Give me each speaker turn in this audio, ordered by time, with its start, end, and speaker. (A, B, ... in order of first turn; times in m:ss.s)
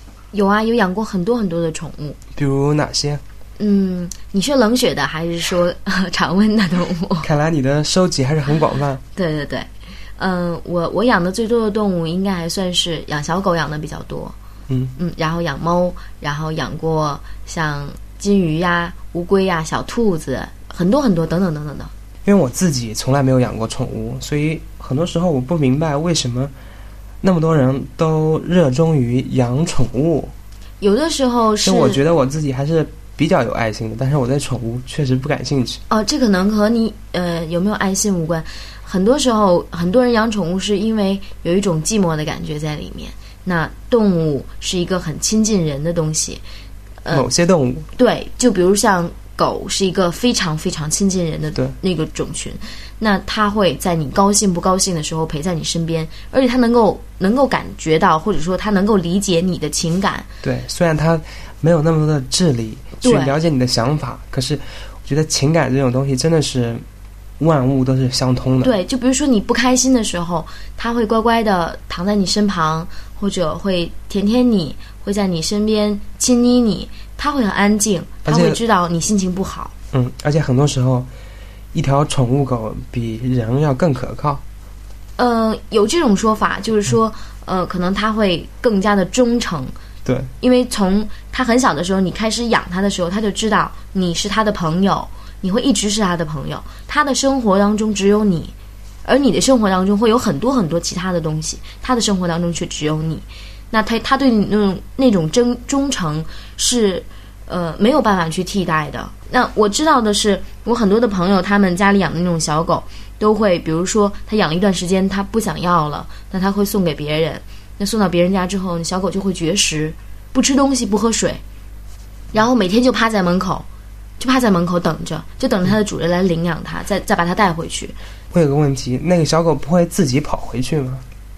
0:00.3-0:02.2 A
0:02.4-0:03.2 B
0:03.6-0:07.3 A
0:07.2-0:09.0 B
0:09.1-0:14.3 A
0:14.7-0:14.9 B
0:15.0-0:21.9 A
0:22.2-0:26.5 B
0:27.2-0:30.3 B
0:30.8-0:32.0 A
0:31.6-0:35.8 B
0:35.9-0:46.4 A
0:47.1-0:47.9 B
0:48.0-1:00.3 A
1:00.4-1:06.8 B
1:03.0-1:03.3 A
1:07.4-1:08.7 B
1:08.6-1:19.7 A
1:18.2-1:18.6 B
1:19.9-1:21.1 B
1:21.7-1:24.4 B
1:25.2-1:29.7 A
1:30.0-1:30.3 B
1:30.4-1:38.5 A
1:39.0-2:01.4 A
2:02.3-2:03.6 A
2:04.2-2:07.9 A
2:08.3-2:11.0 B